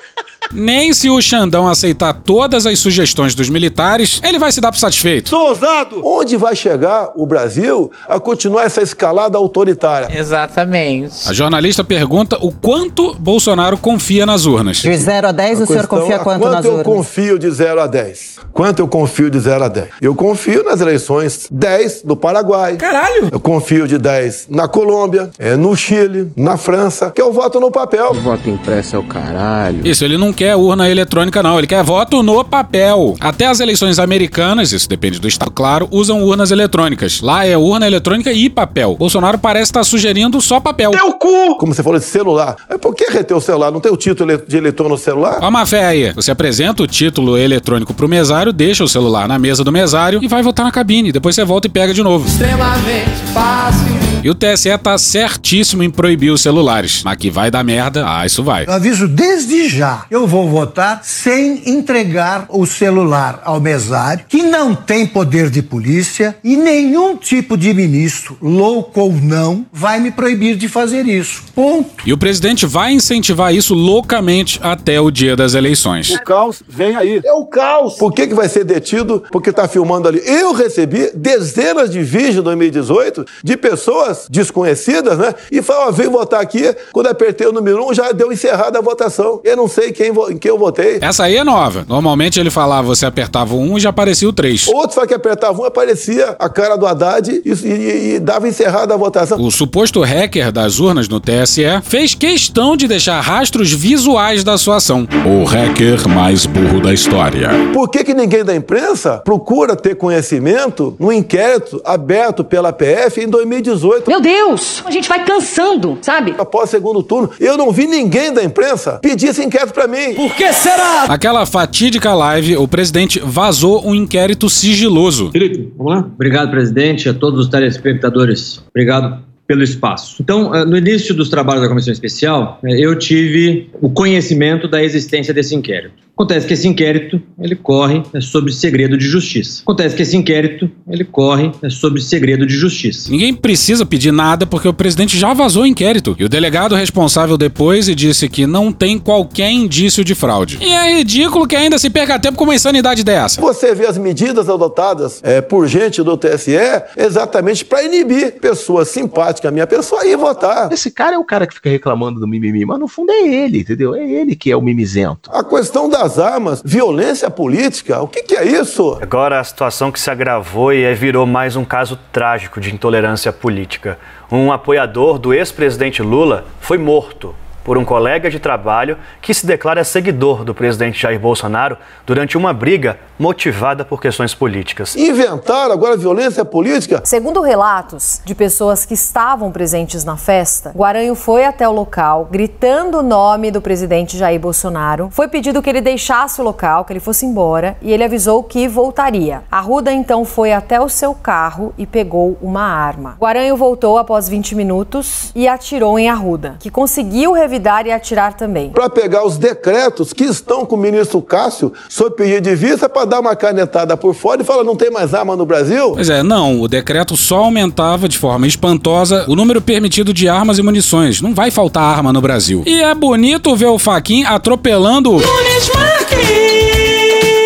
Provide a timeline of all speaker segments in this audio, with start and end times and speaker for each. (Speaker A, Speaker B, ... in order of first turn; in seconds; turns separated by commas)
Speaker A: 0.5-5.3, Speaker B: 6.0-10.1, Speaker C: 10.1-11.3, Speaker A: 11.2-14.9, Speaker D: 14.8-17.0, Speaker B: 15.5-28.2, Speaker A: 22.8-23.3, Speaker C: 28.1-29.8, Speaker A: 29.8-41.0, Speaker B: 41.6-45.4, Speaker A: 45.4-52.3, Speaker A: 54.2-58.7, Speaker E: 58.6-72.0, Speaker A: 72.0-76.2, Speaker E: 77.3-78.0, Speaker B: 78.0-91.0, Speaker A: 91.0-94.7, Speaker B: 94.7-99.4, Speaker A: 99.3-107.5, Speaker B: 107.7-114.1, Speaker F: 114.1-116.4, Speaker B: 116.4-120.2, Speaker A: 121.1-125.3, Speaker G: 125.8-143.1, Speaker A: 143.1-153.4, Speaker B: 153.4-160.7, Speaker H: 160.8-163.0, Speaker H: 163.5-164.8, Speaker B: 165.3-169.0, Speaker I: 169.0-184.9, Speaker B: 184.9-187.0, Speaker J: 187.0-208.7, Speaker B: 208.7-216.0, Speaker A: 215.9-225.3